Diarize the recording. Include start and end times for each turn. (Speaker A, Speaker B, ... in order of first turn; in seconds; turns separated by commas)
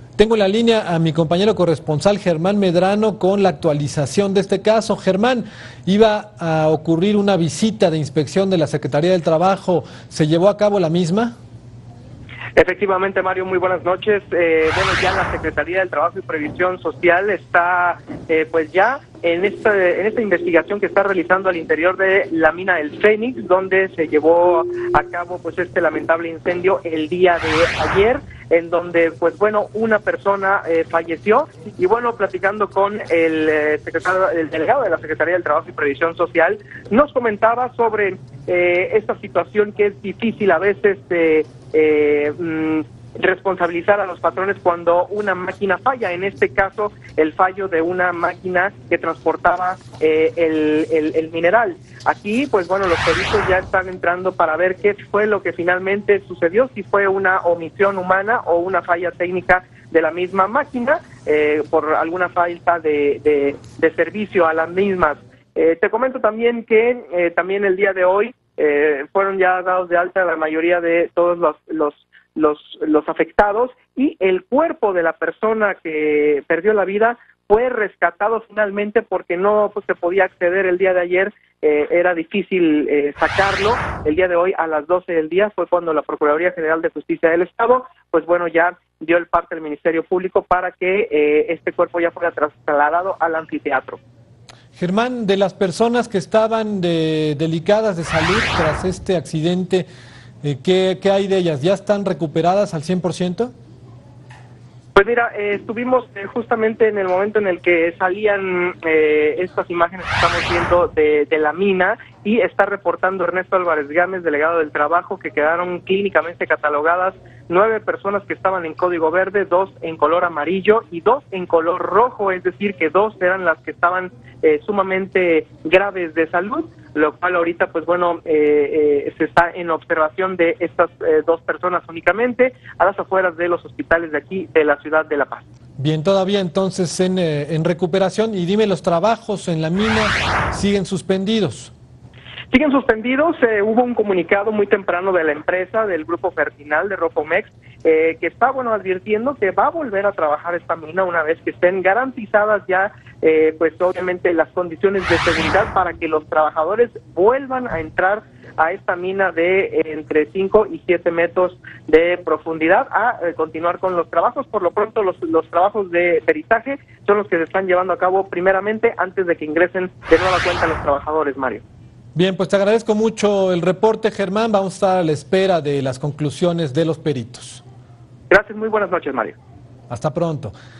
Speaker A: 0.2-11.3, Speaker B: 12.6-94.0, Speaker A: 94.8-99.9, Speaker A: 100.4-103.5, Speaker B: 104.9-135.5, Speaker A: 135.8-141.7, Speaker B: 142.5-171.6, Speaker A: 172.1-177.6, Speaker B: 178.3-179.4, Speaker A: 179.9-180.5